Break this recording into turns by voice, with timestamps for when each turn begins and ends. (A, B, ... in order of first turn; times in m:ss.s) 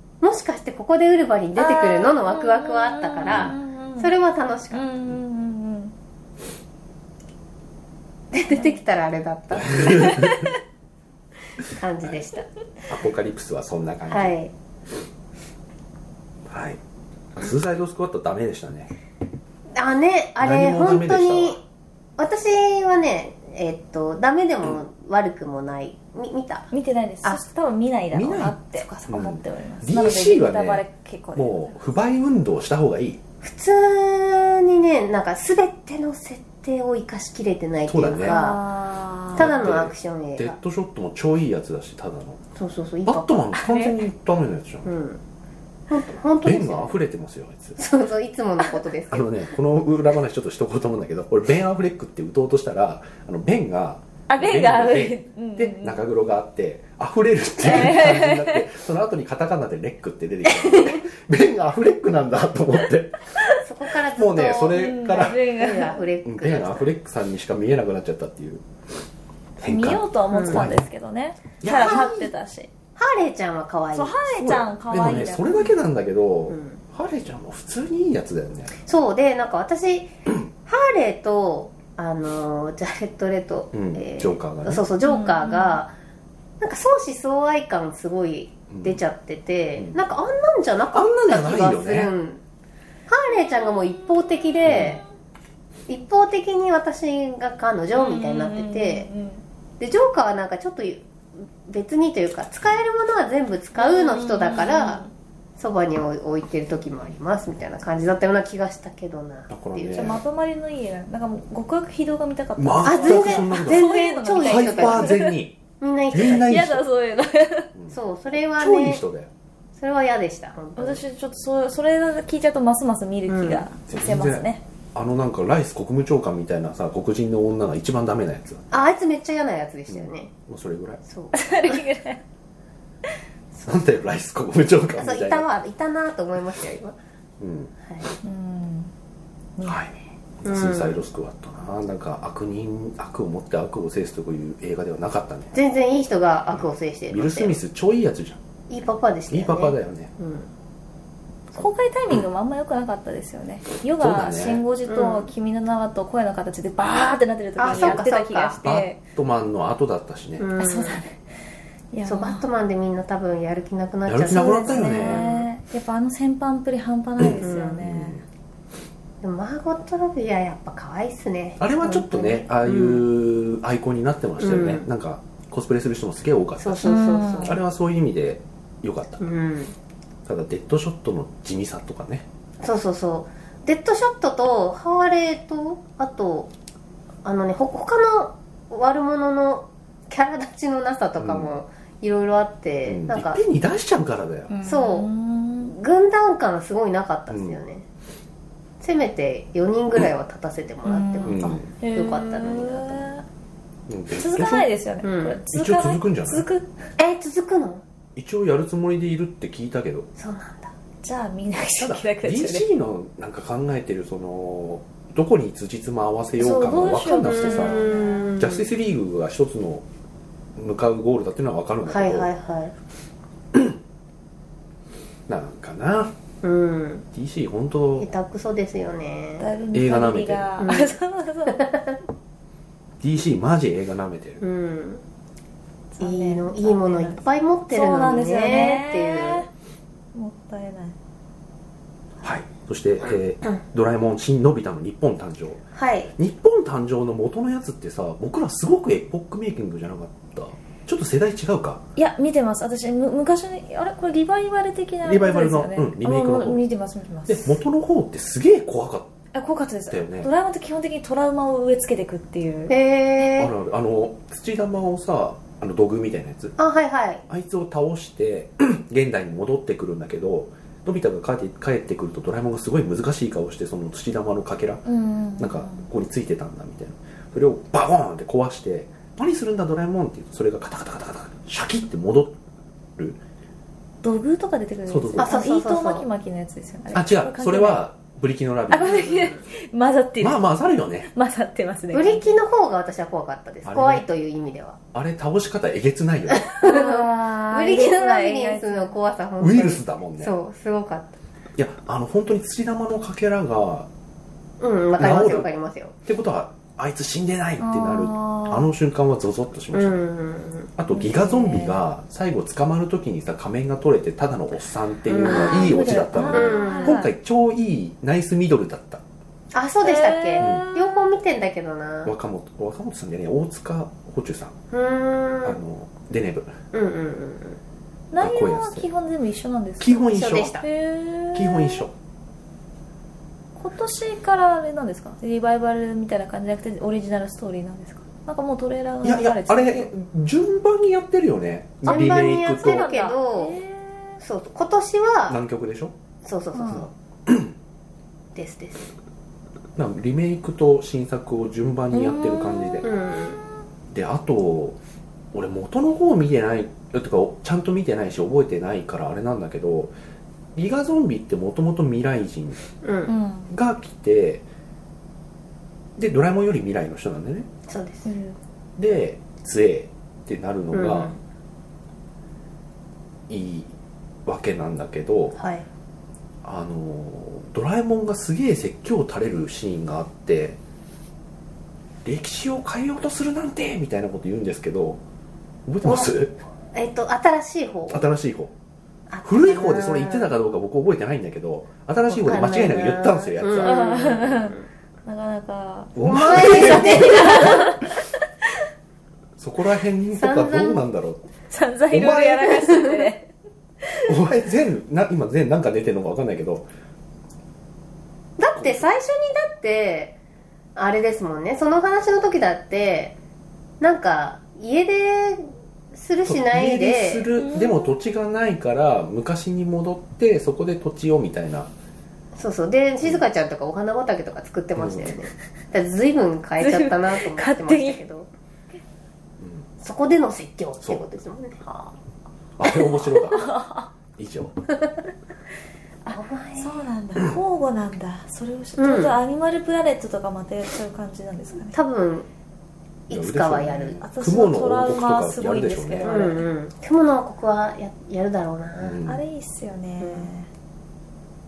0:00.2-0:04.9 A
0:01.6-0:04.1 B
0:03.2-0:03.5 C
0:04.7-0:05.9 B
0:08.3-0:10.3 A
0:08.5-0:08.8 B
0:09.5-0:10.5 C
0:10.1-0:10.5 B
0:11.8-0:12.5 A
0:12.9-0:14.4 C
0:14.1-0:14.5 A
0:16.5-0:16.8 C
0:17.3-0:18.9 C
0:19.8-0:21.6 A
0:20.4-0:21.6 C
0:22.2-0:26.7 A
0:26.7-0:31.8 B
0:28.1-0:28.6 C
0:28.8-0:29.0 A
0:29.1-0:33.2 C
0:33.4-0:38.6 A
0:37.9-0:38.4 C
0:38.2-0:39.5 B
0:39.3-0:40.6 A
0:39.3-0:42.4 C
0:42.6-0:43.5 A
0:43.0-0:44.9 C
0:43.6-0:44.0 B
0:44.9-0:45.2 A
0:45.9-0:47.0 A
0:46.4-0:47.8 C
0:47.8-0:49.3 A
0:49.1-1:03.2 C
0:54.3-0:56.0 B
0:57.6-0:58.6 B
1:00.6-1:01.0 A
1:03.6-1:06.9 A
1:04.1-1:05.4 C
1:04.7-1:06.0 B
1:06.2-1:08.6 C
1:09.6-1:10.9 C
1:09.6-1:12.7 B
1:10.3-1:10.6 A
1:11.6-1:12.3 C
1:13.0-1:14.2 A
1:13.9-1:15.8 B
1:14.3-1:18.7 C
1:16.5-1:16.8 A
1:18.8-1:25.9 A
1:23.7-1:24.8 C
1:25.0-1:25.8 B
1:26.6-1:32.4 A
1:28.7-1:29.0 C
1:30.9-1:32.1 C
1:33.1-1:35.0 A
1:34.6-1:35.0 C
1:35.9-1:39.1 A
1:37.9-1:39.4 B
1:39.8-1:45.0 A
1:43.8-1:45.1 B
1:45.6-1:50.2 A
1:49.5-1:50.2 C
1:49.9-1:55.4 B
1:52.6-1:55.6 C
1:52.8-1:55.2 A
1:55.8-1:56.5 A
1:56.1-1:56.8 C
1:56.2-1:57.7 B
1:57.9-1:59.0 A
1:58.6-1:59.3 C
1:59.8-2:01.0 A
2:00.8-2:04.6 B
2:03.3-2:03.6 A
2:03.9-2:08.6 C
2:08.7-2:10.3 A
2:09.9-2:11.0 C
2:11.0-2:11.8 A
2:11.3-2:12.2 B
2:13.6-2:15.5 C
2:15.0-2:17.0 A
2:17.4-2:17.7 C
2:17.8-2:18.1 A
2:18.2-2:18.9 B
2:19.6-2:20.0 B
2:19.6-2:25.6 C
2:20.4-2:21.0 A
2:25.5-2:27.6 A
2:27.1-2:28.4 C
2:28.7-2:30.5 A
2:29.3-2:30.1 C
2:31.5-2:39.0 B
2:34.0-2:34.6 C
2:34.9-2:35.3 A
2:37.6-2:38.6 A
2:37.6-2:38.0 C
2:38.6-2:40.5 C
2:40.4-2:41.0 A
2:40.6-2:41.2 B
2:41.9-2:42.4 B
2:42.0-2:45.4 A
2:44.1-2:45.2 C
2:44.3-2:48.2 B
2:47.2-2:48.2 C
2:47.4-2:47.8 A
2:49.2-2:53.0 A
2:51.6-2:59.2 C
2:54.4-2:54.8 A
2:56.6-2:57.6 A
2:56.8-2:57.6 B
2:59.2-2:59.8 A
3:00.2-3:02.2 C
3:02.6-3:06.5 A
3:07.2-3:13.4 A
3:11.2-3:11.5 C
3:12.9-3:14.5 C
3:14.5-3:15.7 B
3:14.6-3:15.1 A
3:15.6-3:17.9 A
3:17.3-3:17.6 C
3:18.8-3:23.1 A
3:20.8-3:23.2 B
3:21.3-3:21.7 C
3:23.9-3:24.7 C
3:24.1-3:26.8 B
3:25.0-3:25.4 A
3:25.5-3:26.4 C
3:27.0-3:27.8 A
3:28.2-3:30.1 C
3:30.2-3:30.7 A
3:31.0-3:32.6 B
3:31.8-3:39.9 C
3:36.4-3:38.4 B
3:37.2-3:38.7 A
3:40.6-3:42.3 C
3:41.9-3:42.7 A
3:43.5-3:43.8 C
3:45.3-3:46.1 C
3:46.4-3:47.0 A
3:47.1-3:48.1 C
3:48.0-3:49.4 A
3:49.4-3:51.7 B
3:49.7-3:50.5 C
3:50.6-3:51.0 A
3:51.6-3:52.0 A
3:53.0-3:54.4 C
3:54.4-3:55.0 A
3:55.9-3:59.5 B
3:56.0-3:59.4 A
4:00.1-4:01.0 B
4:02.2-4:05.6 C
4:05.8-4:06.1 A
4:06.2-4:11.8 C
4:12.0-4:17.6 B
4:15.0-4:16.6 C
4:17.3-4:19.1 C
4:19.3-4:22.7 B
4:19.9-4:20.3 C
4:22.7-4:23.5 A
4:23.4-4:26.5 C
4:26.6-4:27.2 A
4:27.3-4:34.8 C
4:34.9-4:35.9 B
4:35.4-4:42.4 C
4:44.0-4:47.9 B
4:44.9-4:45.3 C
4:45.2-4:46.1 A
4:46.9-4:49.4 C
4:48.7-4:50.4 B
4:50.2-4:51.1 C
4:51.0-4:52.4 B
4:51.9-4:54.8 A
4:53.6-4:54.0 C
4:54.9-4:56.4 C
4:56.3-5:01.2 A
4:56.6-4:59.0 B
4:59.4-5:00.3 C
5:01.6-5:03.9 C
5:04.6-5:05.9 A
5:05.0-5:05.5 C
5:06.0-5:10.0 C
5:07.6-5:08.7 B
5:09.7-5:10.7 A
5:10.8-5:19.0 C
5:10.9-5:11.8 B
5:15.1-5:17.0 A
5:15.2-5:17.1 B
5:19.5-5:22.1 A
5:19.8-5:21.1 B
5:20.4-5:20.6 C
5:22.0-5:24.6 C
5:24.7-5:25.6 A
5:25.4-5:26.6 C
5:26.7-5:27.6 A
5:28.1-5:31.9 B
5:28.2-5:28.9 C
5:29.8-5:30.6 C
5:30.1-5:30.6 A
5:31.3-5:31.9 C
5:33.6-5:39.9 B
5:39.0-5:42.9 C
5:41.8-5:43.6 A
5:41.9-5:44.2 B
5:44.2-5:45.4 A
5:45.3-5:45.9 C
5:46.2-5:46.9 A
5:46.5-5:46.9 B
5:46.7-5:47.5 C
5:48.3-5:48.9 A
5:49.8-5:52.9 C
5:51.9-5:53.0 B
5:52.8-5:53.4 A
5:53.9-5:54.8 C
5:55.3-5:59.9 C
6:00.5-6:02.6 C
6:02.8-6:03.1 A
6:03.1-6:03.5 B
6:03.5-6:04.4 C
6:06.0-6:07.5 C
6:07.7-6:08.1 A
6:08.0-6:08.4 B
6:08.8-6:11.1 C
6:10.7-6:11.2 A
6:13.3-6:15.4 C
6:15.3-6:15.7 A
6:16.4-6:20.6 C
6:22.0-6:25.0 C
6:25.6-6:26.3 C
6:25.8-6:26.1 A
6:26.7-6:28.1 A
6:27.9-6:28.5 C
6:29.1-6:30.3 A
6:29.2-6:33.8 C
6:32.1-6:34.6 A
6:33.6-6:38.0 B
6:35.9-6:37.6 C
6:36.0-6:37.8 A
6:39.4-6:41.2 C
6:40.1-6:40.8 A
6:41.5-6:43.3 B
6:41.9-6:42.5 C
6:42.5-6:43.0 A
6:43.8-6:44.1 B
6:44.1-6:46.7 C
6:48.4-6:50.2 A
6:48.6-6:48.8 C
6:50.8-6:53.2 A
6:53.8-6:57.3 A
6:56.2-7:01.7 C
6:57.4-6:58.0 B
7:02.3-7:08.3 A
7:04.8-7:05.1 C
7:06.6-7:08.0 B
7:09.4-7:09.7 C
7:09.8-7:11.6 A
7:11.6-7:11.9 B
7:12.6-7:13.5 C
7:12.6-7:13.9 B
7:14.2-7:14.6 C
7:16.0-7:21.8 B
7:16.1-7:16.8 A
7:18.8-7:19.2 A
7:21.7-7:22.3 A
7:23.1-7:24.0 A
7:23.1-7:26.4 C
7:24.0-7:26.5 B
7:26.0-7:29.0 A
7:28.8-7:29.2 C
7:29.0-7:30.5 B
7:30.0-7:30.3 A